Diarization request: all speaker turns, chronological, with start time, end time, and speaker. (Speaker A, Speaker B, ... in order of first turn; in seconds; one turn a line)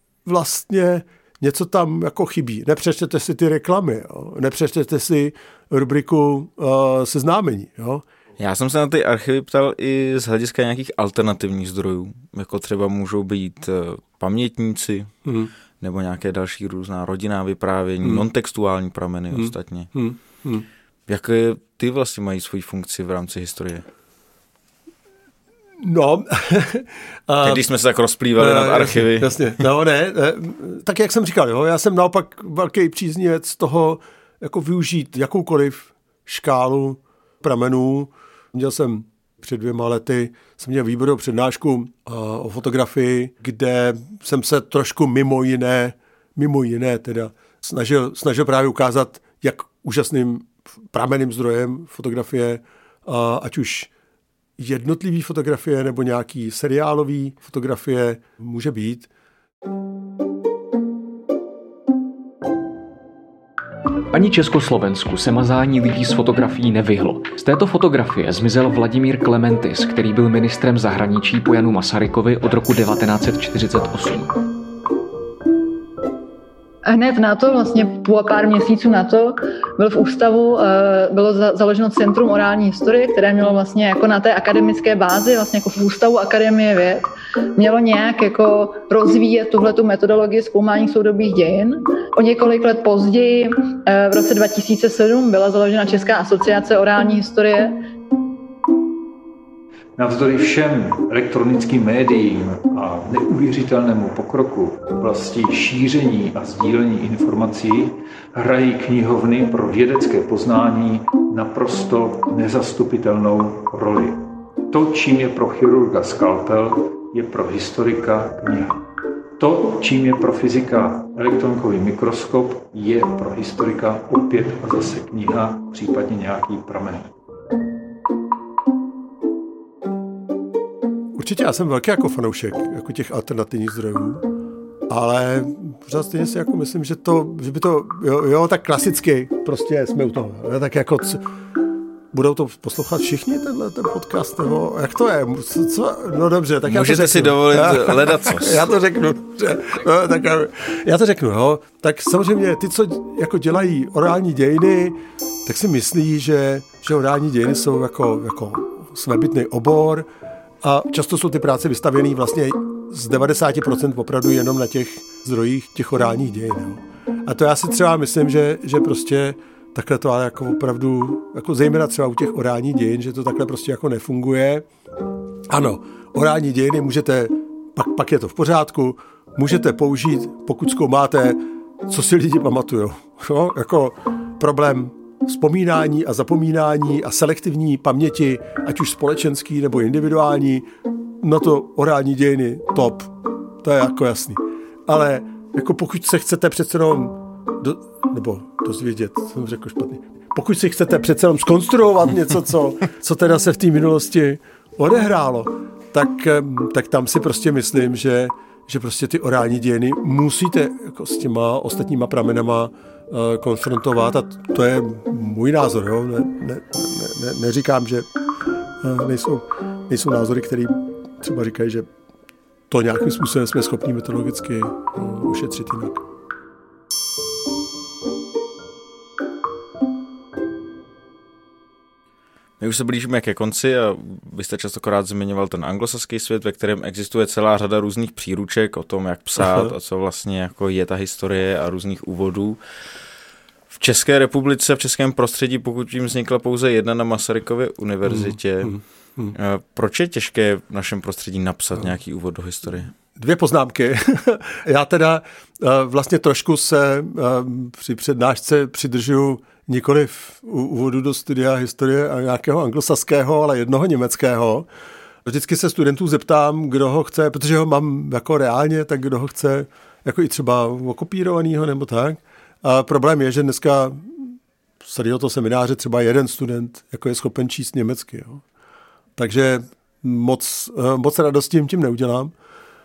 Speaker A: 0.2-8.0
Speaker B: 8.4-15.1
Speaker A: 15.2-15.5
Speaker B: 15.8-19.9
Speaker A: 19.3-20.6
Speaker B: 21.1-23.9
Speaker A: 25.8-27.6
Speaker B: 27.4-29.5
Speaker A: 28.4-53.9
Speaker A: 54.6-59.1
Speaker C: 64.1-74.3
Speaker D: 76.8-97.7
Speaker E: 100.0-118.8
Speaker E: 119.4-127.1
Speaker A: 131.2-134.2
Speaker A: 134.9-141.2
Speaker A: 142.1-160.1
Speaker B: 146.6-148.7
Speaker A: 160.6-174.6
Speaker A: 175.5-190.7
Speaker A: 191.2-218.1
Speaker A: 218.8-221.9
Speaker A: 222.7-226.0
Speaker B: 232.6-242.6
Speaker A: 239.4-239.7
Speaker B: 243.7-248.7
Speaker A: 248.0-249.3
Speaker B: 249.3-252.9
Speaker A: 253.1-264.7
Speaker A: 265.2-278.4
Speaker A: 279.2-282.3